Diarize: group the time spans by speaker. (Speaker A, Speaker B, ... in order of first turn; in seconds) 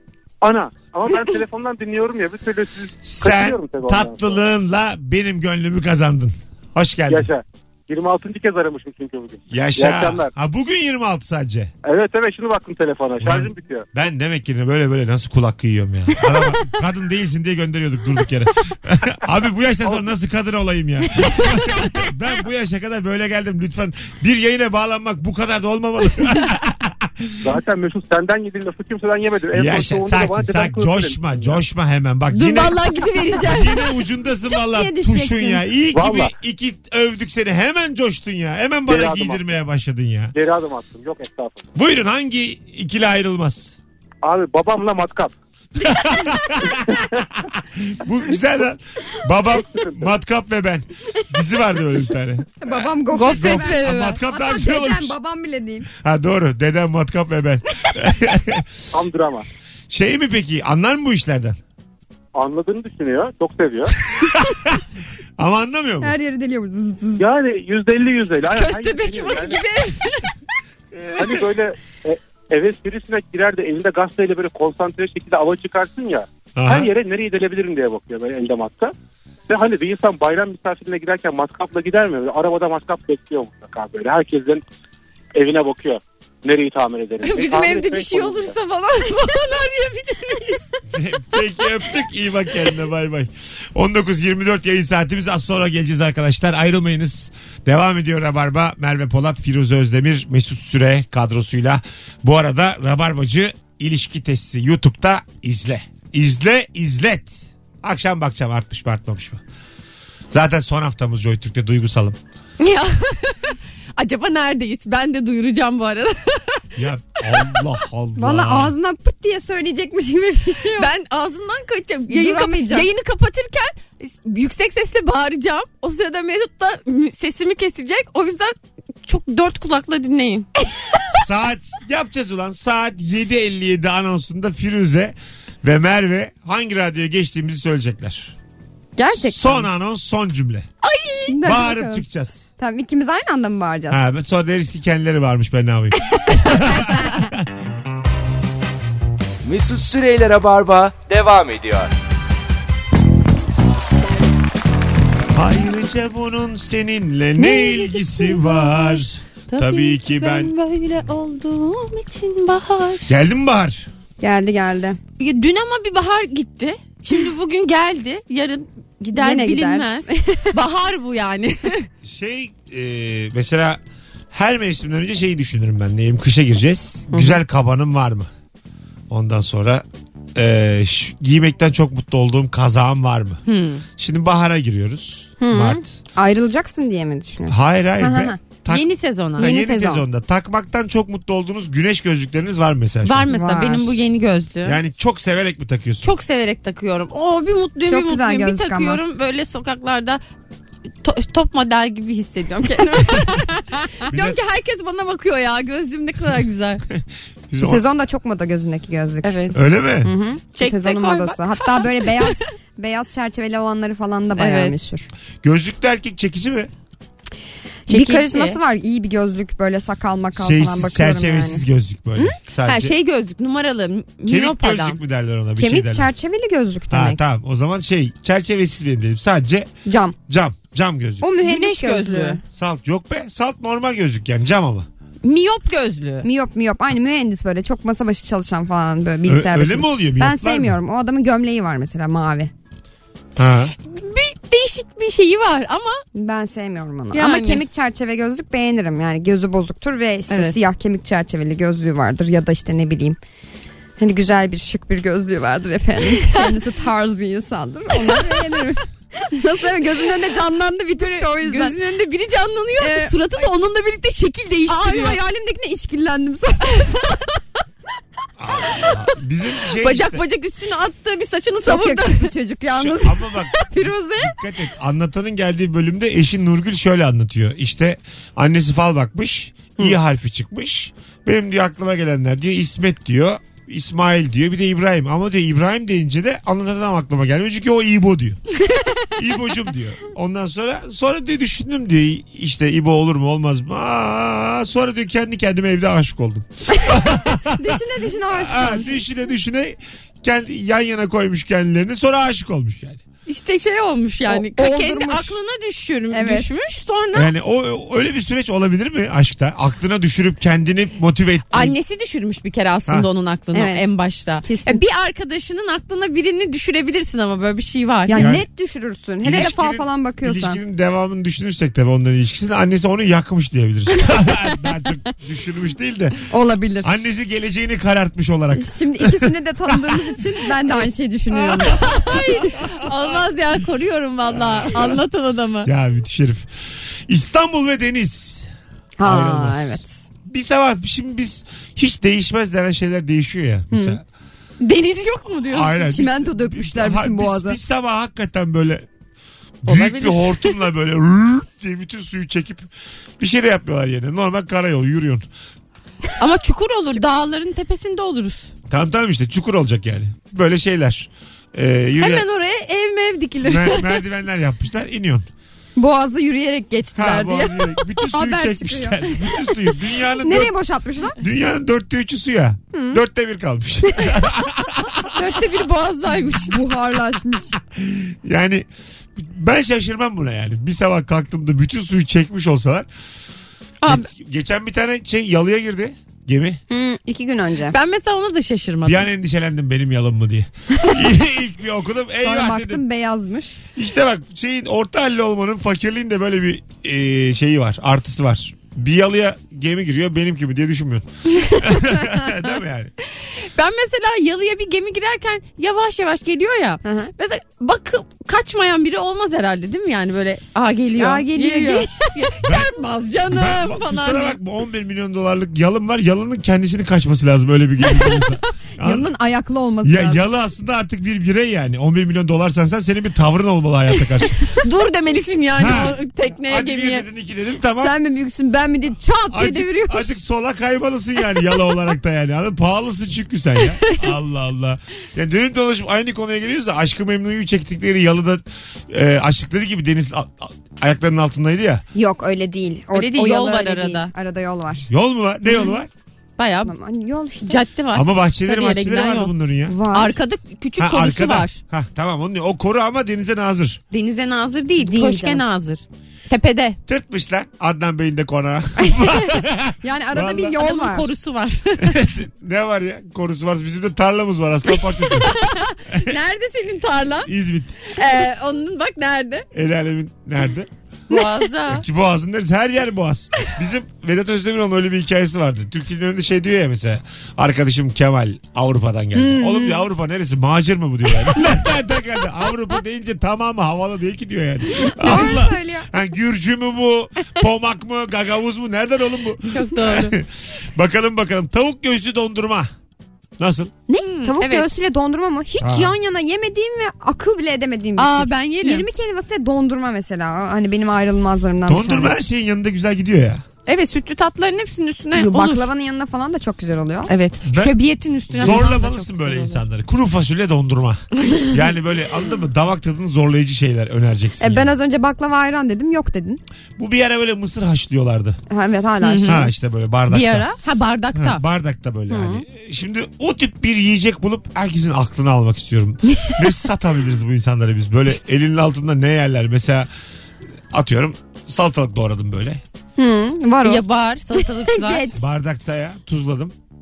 Speaker A: 0.4-4.4, 7.1-10.3, 11.8-13.8, 27.4-31.6, 35.9-36.3, 38.9-39.4, 40.3-41.6, 44.2-45.3, 49.6-50.1, 58.9-59.4, 62.3-63.9, 67.2-69.6, 71.2-78.9, 79.5-84.6, 85.3-88.5
Speaker B: 3.0-7.3, 9.5-11.7, 13.2-27.5, 29.5-32.8, 33.4-40.3, 41.7-43.8, 45.8-55.1, 55.9-58.8, 59.9-61.6, 64.2-64.8, 65.4-66.1, 70.9-71.4, 76.5-76.9, 90.9-109.4, 110.3-112.2, 116.8-118.7, 131.1-138.3, 139.1-140.7, 141.4-142.4, 143.9-147.5, 155.3-160.5, 163.1-163.9, 172.0-173.8, 174.3-178.3, 179.1-183.4, 184.0-185.9, 187.5-193.3, 194.6-196.1, 204.1-204.4, 206.9-207.8, 209.5-210.1, 215.4-216.7, 220.3-222.9, 224.2-226.1, 226.9-229.7, 230.3-231.3, 232.5-234.9, 239.2-240.8, 243.4-243.7, 268.4-270.2, 272.7-288.4, 289.1-303.0, 307.1-311.8, 318.1-318.4, 319.2-326.2, 326.8-330.2, 334.4-335.0, 335.6-338.5, 339.0-344.0, 345.5-348.9, 349.6-355.3, 358.7-362.2, 363.4-365.3, 366.9-370.5, 371.2-375.2, 377.7-382.9, 383.8-386.6, 388.9-392.8, 393.7-402.9, 412.4-412.8, 413.3-419.1, 419.8-424.5, 425.6-427.9, 429.3-441.8, 444.9-445.9, 447.9-449.8, 450.8-453.8, 456.9-460.6, 461.8-465.4, 467.2-467.8, 469.5-470.7, 471.7-492.7, 493.4-493.7, 495.6-495.9, 501.6-503.4, 507.4-507.8, 508.3-514.8, 516.8-518.4, 519.2-520.5, 521.1-529.9, 530.7-532.6, 535.1-536.5
Speaker C: 32.3-33.9, 53.1-54.2, 68.5-70.3, 87.2-90.7, 112.6-116.7, 120.7-130.5, 140.8-141.4, 157.4-163.1, 165.2-171.9, 183.4-183.8, 188.7-189.6, 193.0-194.8, 196.0-200.2, 201.0-206.8, 209.2-209.6, 210.5-212.3, 214.3-214.8, 217.9-218.6, 222.6-225.0, 231.4-232.4, 235.2-236.2, 243.8-246.0, 247.1-247.6, 250.3-250.6, 256.2-256.5, 261.0-265.2, 269.8-272.3, 303.3-307.3, 311.5-318.3, 331.3-335.7, 344.6-345.8, 349.6-350.6, 356.2-358.5, 362.0-363.9, 375.1-376.6, 383.8-384.1, 387.7-389.1, 401.4-402.0, 403.1-414.4, 424.5-427.0, 433.8-434.1, 442.9-444.1, 445.5-445.8, 446.4-446.7, 447.4-449.3, 449.9-451.6, 453.9-456.8, 460.6-462.0, 465.2-467.3, 467.9-469.4, 471.1-471.8, 485.0-485.4, 489.5-490.1, 493.9-494.6, 498.0-498.9, 503.6-505.7, 507.1-509.6, 511.2-511.5, 519.0-519.5, 520.1-521.4, 526.1-526.4, 533.6-535.2
Speaker D: 34.5-35.6, 52.6-55.9, 66.0-67.2, 118.2-120.9, 122.1-122.9, 138.9-139.7, 141.3-142.0, 142.6-144.0, 164.2-165.0, 169.1-170.5, 177.1-177.4, 185.4-188.4, 189.4-190.0, 193.3-194.0, 197.8-199.0, 207.6-209.4, 210.0-215.1, 217.9-221.6, 225.6-227.2, 229.8-230.2, 231.2-232.4, 236.2-242.5, 246.1-253.2, 254.0-261.8, 262.8-263.2, 264.7-267.2, 271.6-274.4, 296.7-299.0, 304.3-305.4, 306.1-306.5, 313.5-313.9, 314.4-314.8, 318.1-320.6, 326.3-327.0, 328.5-332.5, 339.0-340.0, 343.7-344.0, 345.8-347.6, 365.8-369.5, 370.2-371.2, 372.7-373.0, 376.1-377.5, 386.7-387.8, 392.2-393.6, 406.8-407.1, 411.0-412.1, 417.8-418.2, 418.8-420.2, 427.7-430.1, 441.9-444.9, 446.6-447.6, 449.7-450.1, 454.8-455.4, 458.8-461.1, 479.1-479.8, 485.0-485.9, 494.2-502.1, 505.1-507.1, 508.4-508.8, 514.4-516.4, 518.5-519.5, 522.1-522.4, 533.0-533.8, 534.4-535.2
Speaker E: 149.4-151.9